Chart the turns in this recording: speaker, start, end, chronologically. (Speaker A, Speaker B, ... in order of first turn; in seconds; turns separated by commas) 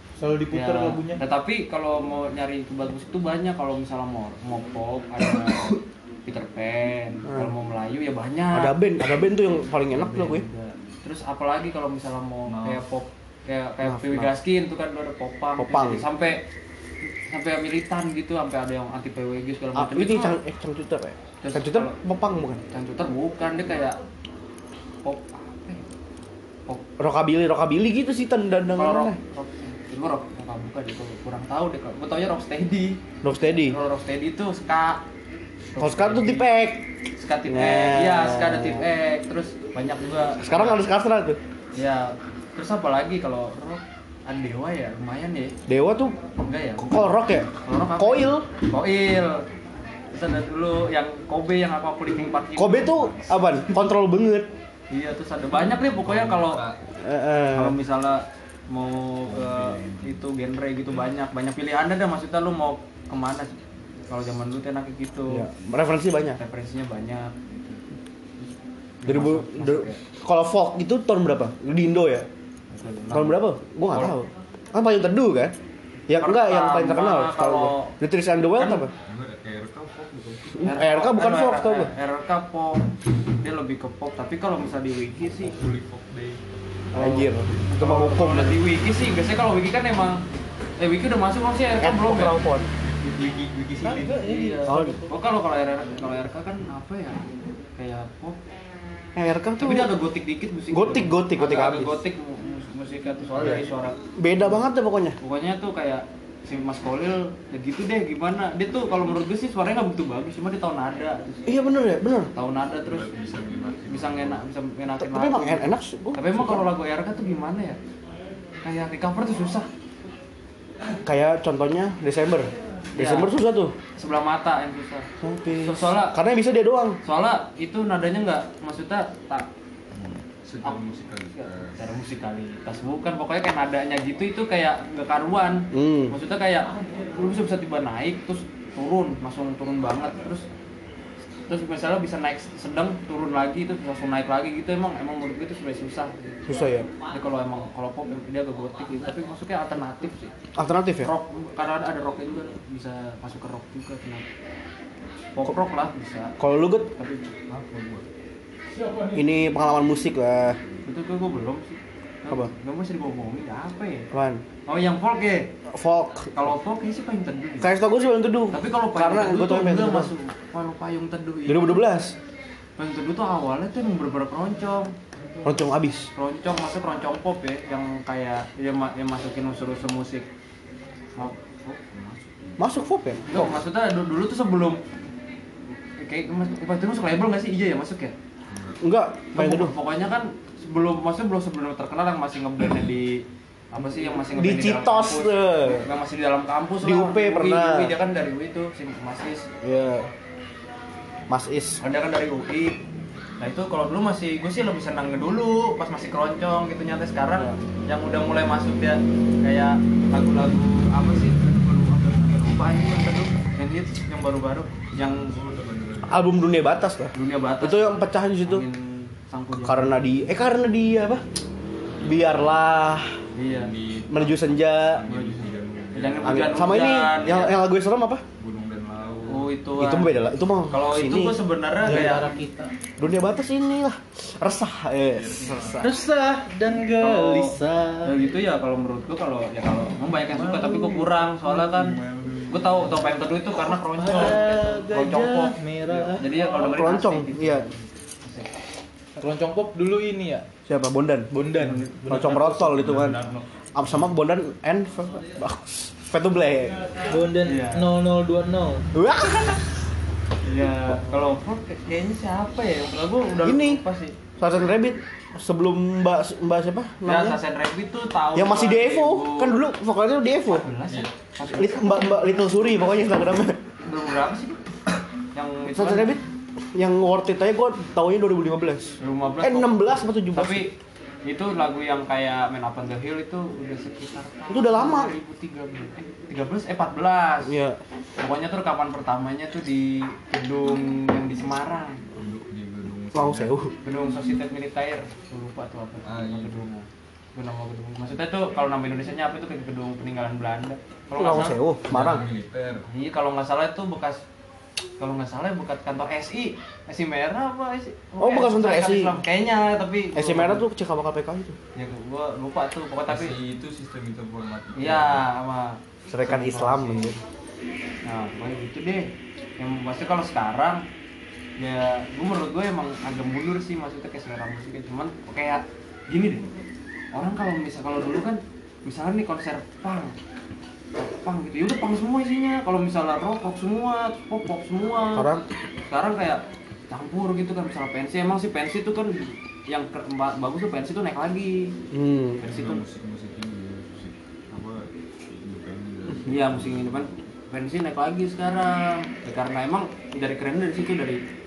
Speaker A: 0.2-1.2, Speaker B: 0.5-9.1, Speaker C: 7.3-7.5, Speaker C: 8.5-10.4, Speaker B: 9.9-16.4, Speaker D: 12.5-12.8, Speaker C: 13.8-14.3, Speaker C: 15.6-16.0, Speaker B: 17.3-20.4, Speaker C: 19.7-22.6, Speaker B: 21.4-22.0, Speaker B: 22.7-24.0, Speaker B: 25.0-25.8, Speaker C: 27.0-29.2, Speaker B: 28.8-35.0, Speaker C: 33.2-33.8, Speaker B: 35.7-36.5, Speaker C: 35.8-36.9, Speaker B: 37.2-40.8, Speaker C: 37.5-38.8, Speaker C: 40.4-41.4, Speaker B: 41.7-45.6, Speaker C: 45.7-46.2, Speaker B: 46.4-49.5, Speaker C: 46.8-48.5, Speaker B: 50.1-53.4, Speaker C: 52.5-54.5, Speaker B: 54.9-56.6, Speaker D: 55.7-56.8, Speaker C: 57.0-57.8, Speaker B: 57.5-63.5, Speaker D: 59.2-60.2, Speaker B: 64.1-65.5, Speaker C: 65.3-66.4, Speaker B: 66.3-67.8, Speaker B: 69.0-70.0, Speaker C: 69.0-72.3, Speaker B: 72.7-74.1, Speaker C: 73.1-75.5, Speaker C: 76.1-78.9, Speaker B: 76.2-77.9, Speaker B: 78.6-78.8, Speaker D: 79.0-80.6, Speaker C: 80.6-81.9, Speaker B: 80.6-82.9, Speaker B: 83.4-85.6, Speaker D: 85.5-86.5, Speaker C: 86.9-88.6, Speaker B: 86.9-90.2, Speaker B: 90.8-92.4, Speaker C: 91.8-92.7, Speaker D: 92.8-94.3, Speaker A: 93.8-95.1, Speaker B: 94.0-97.2, Speaker C: 94.6-95.0, Speaker B: 97.8-98.4, Speaker C: 99.1-99.9, Speaker B: 99.6-104.0, Speaker C: 100.7-102.0, Speaker C: 103.4-105.2, Speaker B: 105.2-111.7, Speaker C: 111.5-112.3, Speaker B: 112.3-113.1, Speaker D: 112.8-114.4, Speaker B: 113.9-117.8, Speaker C: 115.0-116.7, Speaker B: 118.6-119.7, Speaker C: 121.0-123.7, Speaker B: 122.9-123.3, Speaker B: 124.0-126.2, Speaker C: 125.2-127.0, Speaker B: 127.0-129.5, Speaker D: 129.9-131.8, Speaker B: 131.3-140.4, Speaker C: 135.7-136.2, Speaker B: 141.4-150.3, Speaker C: 146.5-146.9, Speaker C: 150.5-151.1, Speaker B: 151.0-154.2, Speaker B: 155.3-156.3, Speaker C: 156.4-156.9, Speaker B: 156.9-157.3, Speaker D: 157.5-158.1, Speaker C: 159.1-160.6, Speaker B: 160.8-164.1, Speaker C: 164.1-164.4, Speaker B: 164.7-165.5, Speaker C: 165.7-166.3, Speaker B: 166.3-167.7, Speaker C: 167.6-170.1, Speaker B: 168.5-171.8, Speaker C: 171.4-172.2, Speaker B: 172.8-174.9, Speaker C: 175.4-176.1, Speaker B: 176.1-180.3, Speaker D: 181.2-182.6, Speaker C: 182.6-183.6, Speaker B: 183.3-184.8, Speaker B: 186.0-188.2, Speaker D: 188.5-188.8, Speaker C: 188.8-189.7, Speaker B: 189.3-199.5, Speaker C: 194.2-195.9, Speaker C: 196.8-197.9, Speaker C: 199.6-200.1, Speaker C: 201.3-201.8, Speaker B: 201.8-202.8, Speaker B: 203.4-215.3, Speaker D: 215.1-216.4, Speaker C: 216.1-218.6, Speaker B: 217.1-220.0, Speaker C: 219.6-221.2, Speaker D: 221.9-222.3, Speaker C: 222.0-223.2, Speaker B: 223.3-223.7, Speaker D: 223.4-227.5, Speaker C: 224.1-225.0, Speaker B: 225.1-227.6, Speaker C: 226.2-228.2, Speaker D: 228.4-229.5, Speaker B: 229.3-232.3, Speaker C: 229.8-231.4, Speaker A: 231.8-232.7, Speaker C: 233.0-235.9, Speaker D: 235.1-235.9, Speaker A: 235.8-238.2, Speaker B: 237.0-248.5, Speaker D: 240.4-243.2, Speaker A: 240.6-241.0, Speaker A: 243.9-246.3, Speaker C: 246.4-247.7, Speaker A: 249.2-250.4, Speaker C: 250.7-251.3, Speaker A: 251.3-252.8, Speaker B: 251.6-252.1, Speaker C: 252.1-253.2, Speaker D: 252.6-253.4, Speaker C: 253.7-257.1, Speaker A: 257.1-258.9, Speaker B: 257.4-257.9, Speaker C: 258.9-259.6, Speaker B: 260.4-264.2, Speaker C: 263.4-263.8, Speaker C: 264.4-267.4, Speaker B: 267.0-269.6, Speaker C: 268.3-270.7, Speaker B: 270.5-272.2, Speaker C: 271.4-273.6, Speaker B: 273.8-274.6, Speaker B: 275.3-276.2, Speaker C: 275.7-280.7, Speaker B: 279.0-287.5, Speaker C: 284.5-285.1, Speaker C: 287.4-287.8, Speaker B: 288.2-292.0, Speaker D: 292.1-293.5, Speaker C: 293.1-293.7, Speaker B: 293.8-301.6, Speaker D: 296.0-296.6, Speaker C: 301.1-302.2, Speaker D: 301.9-302.9, Speaker B: 302.8-304.2, Speaker B: 305.0-310.6, Speaker C: 308.2-309.1, Speaker C: 310.1-311.6, Speaker B: 311.7-313.3, Speaker D: 313.1-315.2, Speaker B: 314.8-317.1, Speaker C: 316.1-317.2, Speaker B: 318.0-320.8, Speaker B: 321.6-326.5, Speaker B: 327.1-330.1, Speaker B: 330.9-335.3, Speaker C: 335.1-335.4, Speaker B: 335.9-341.8, Speaker C: 341.9-342.4, Speaker B: 342.4-342.8, Speaker D: 342.4-347.1, Speaker B: 346.2-351.2